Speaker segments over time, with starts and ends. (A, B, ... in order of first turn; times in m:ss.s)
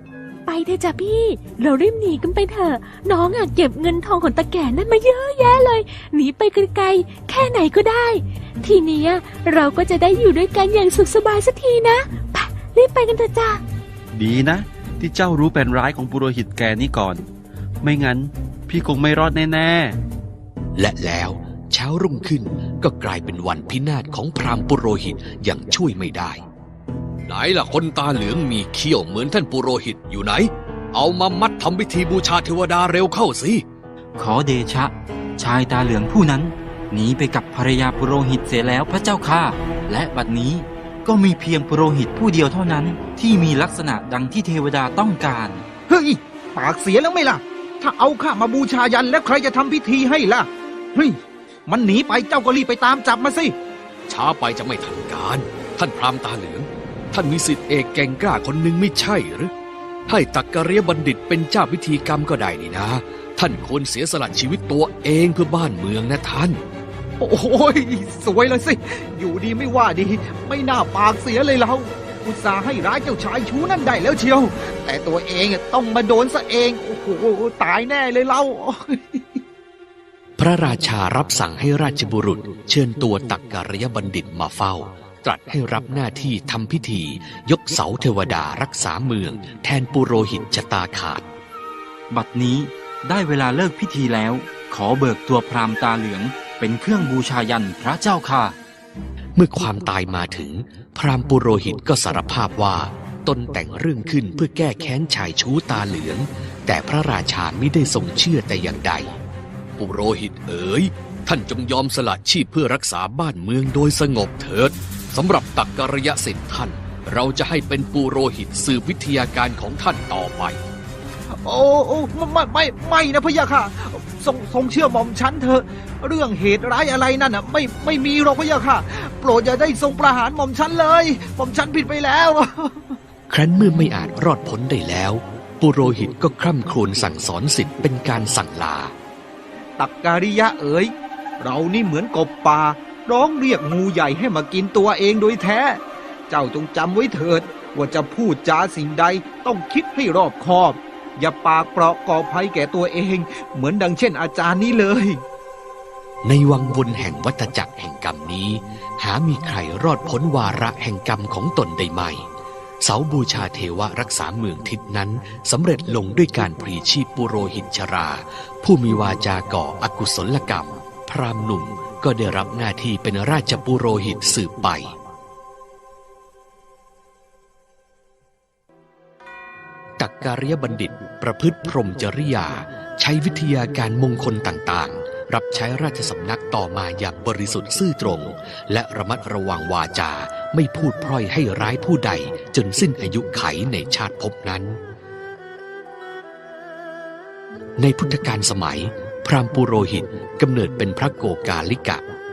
0:00.4-0:13.6 A
0:14.1-0:17.2 B
0:17.8-0:20.0 B
0:20.8-0:26.4 C
0:27.3-0:33.6 C
0:34.2-0:45.6 D
0:45.9-0:53.5 E
0:54.1-0:59.5 C
1:00.1-1:06.6 C
1:07.2-1:19.4 E
1:20.4-1:31.3 C
1:32.1-1:38.5 D
1:39.4-1:49.2 C
1:49.8-2:00.6 C
2:01.4-2:13.0 E
2:13.3-2:18.9 C
2:19.8-2:35.2 E
2:36.2-2:42.2 C
2:42.8-2:54.9 C
3:00.0-3:14.8 C
3:17.8-3:22.0 C